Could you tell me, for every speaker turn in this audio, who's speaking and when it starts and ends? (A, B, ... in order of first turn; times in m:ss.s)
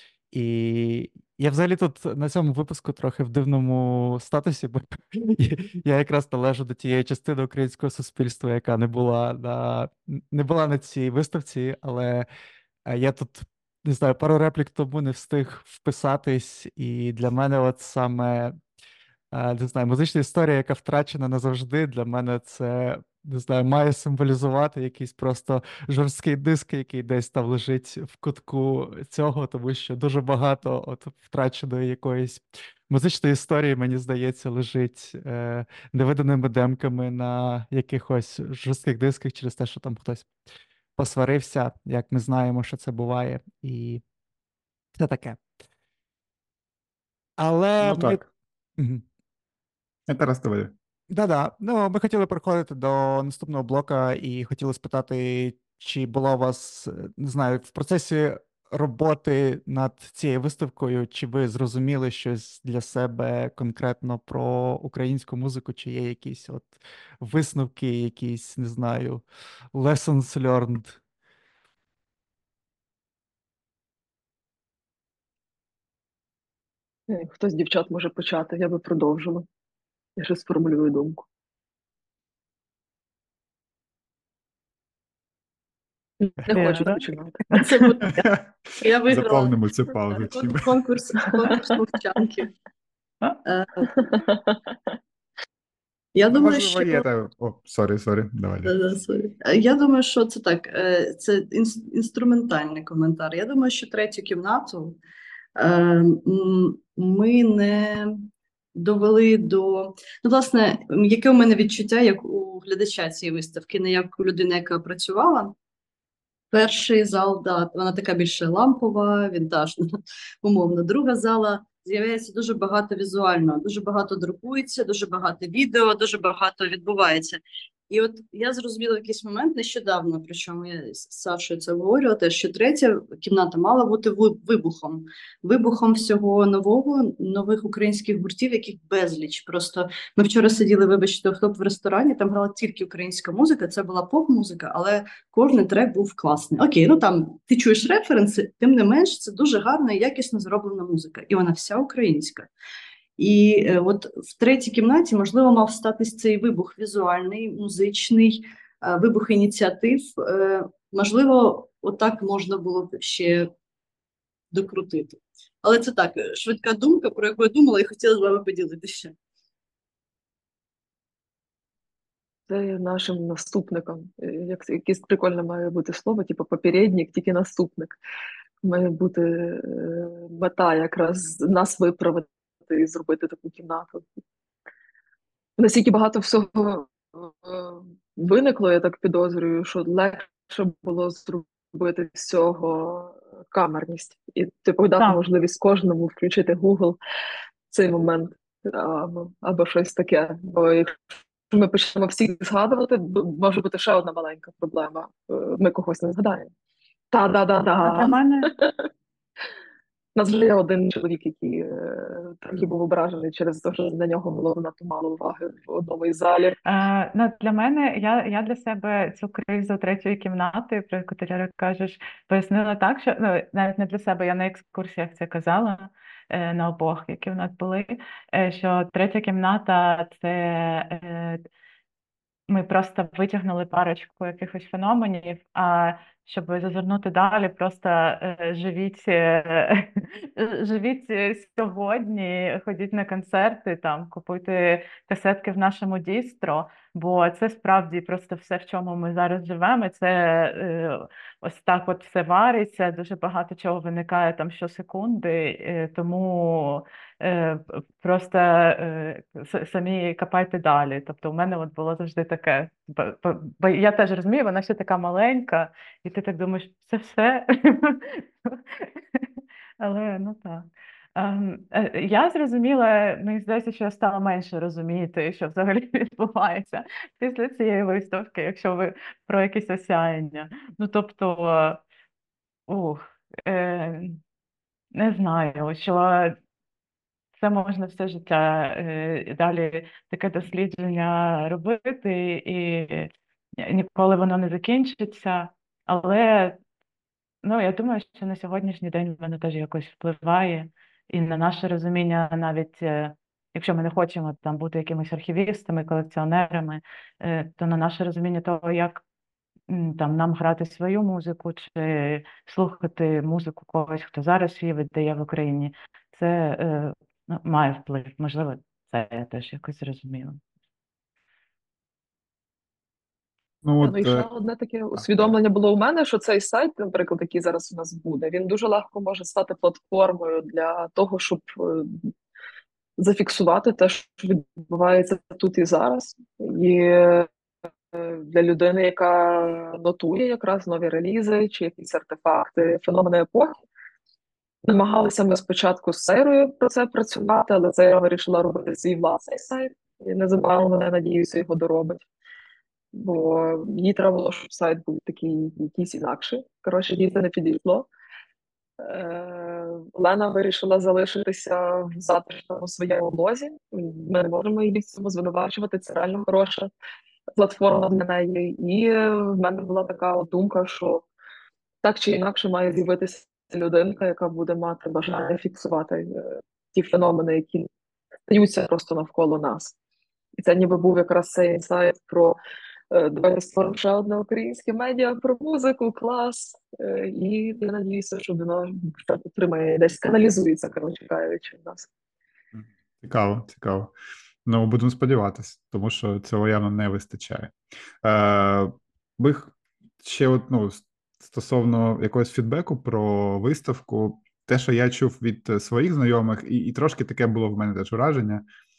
0:00.3-0:12.2 A
0:12.9-0:18.6 A
0:19.3-0:40.3 A
0:41.0-0:44.0 A
0:44.9-0:45.4 A
0:47.4-0:48.2 A
0:47.8-0:48.2 B
0:48.8-0:49.0 A
0:50.1-0:50.7 B
0:51.1-1:11.0 A
1:17.1-1:19.4 C
1:20.2-1:21.2 C
1:26.2-1:28.2 C
1:26.5-1:27.9 D
1:28.1-1:30.7 B
1:28.8-1:29.5 E
1:30.1-1:32.5 E
1:33.4-1:33.9 E
1:34.0-1:34.4 C
1:36.2-1:37.1 E
1:36.3-1:38.8 B
1:38.6-1:45.0 E
1:45.6-1:55.5 E
1:56.5-2:32.5 E
2:33.2-2:43.5 E
2:44.5-2:49.2 E
2:52.5-2:58.0 C
2:58.6-3:04.0 C
3:05.6-3:17.0 C
3:17.7-3:26.5 C
3:27.1-3:28.8 C
3:27.8-3:28.5 D
3:30.2-3:36.6 C
3:36.6-3:51.4 D
3:52.5-4:29.2 D
4:29.8-4:41.8 D
4:42.7-4:44.2 D
4:44.9-4:46.4 D
4:47.4-4:56.6 D
4:57.4-5:09.0 D
5:09.7-5:20.4 D
5:23.6-5:24.3 B
5:23.8-5:32.1 C
5:25.0-5:25.3 B
5:33.0-5:37.3 C
5:37.9-5:43.6 C
5:44.6-5:52.0 C
5:52.9-5:57.9 C
5:58.8-6:06.7 C
6:07.4-6:11.1 C
6:11.8-6:17.7 C
6:18.3-6:19.7 C
6:20.4-6:22.4 C
6:22.9-6:31.9 C
6:32.5-6:33.9 B
6:34.5-6:48.4 B